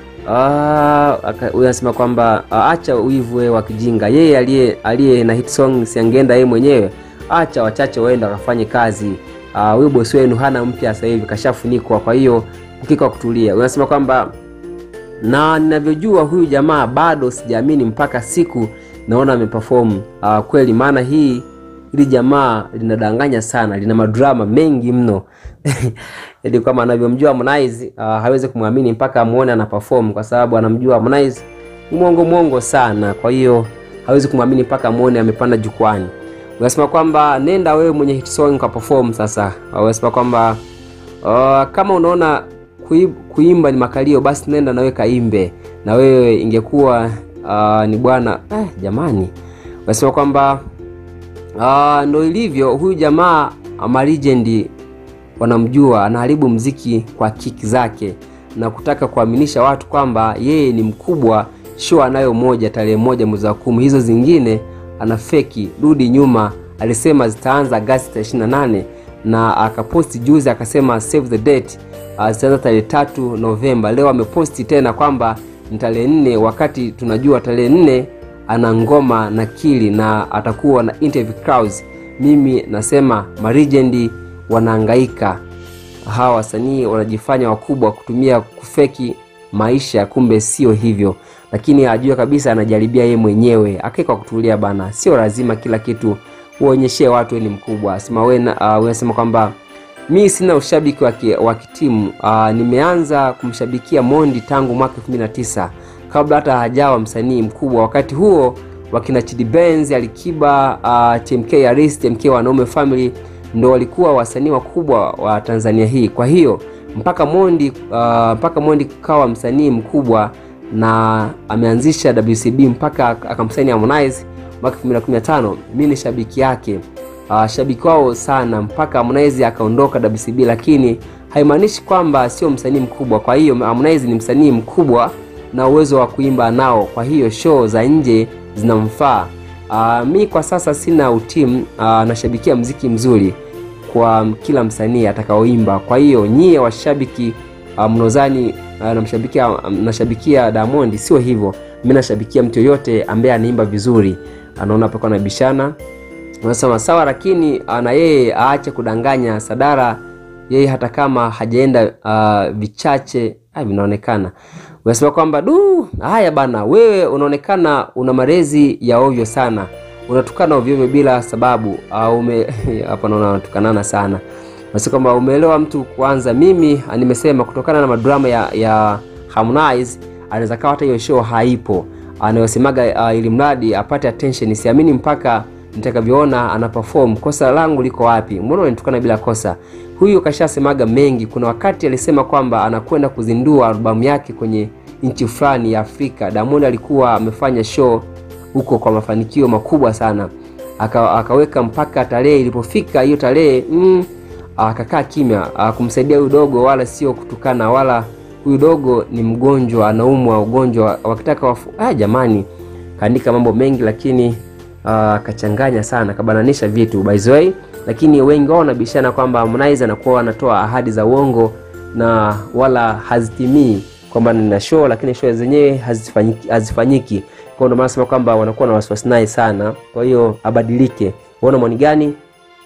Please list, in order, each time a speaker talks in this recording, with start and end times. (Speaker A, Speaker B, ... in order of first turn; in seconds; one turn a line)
Speaker A: 0.2-14.3
Speaker A: 15.2-40.6
Speaker A: 41.2-49.3
Speaker A: 49.9-50.6
Speaker A: 51.6-54.7
Speaker A: 55.4-85.4
Speaker A: 86.0-99.5
Speaker A: 100.1-155.8
Speaker A: 156.4-232.2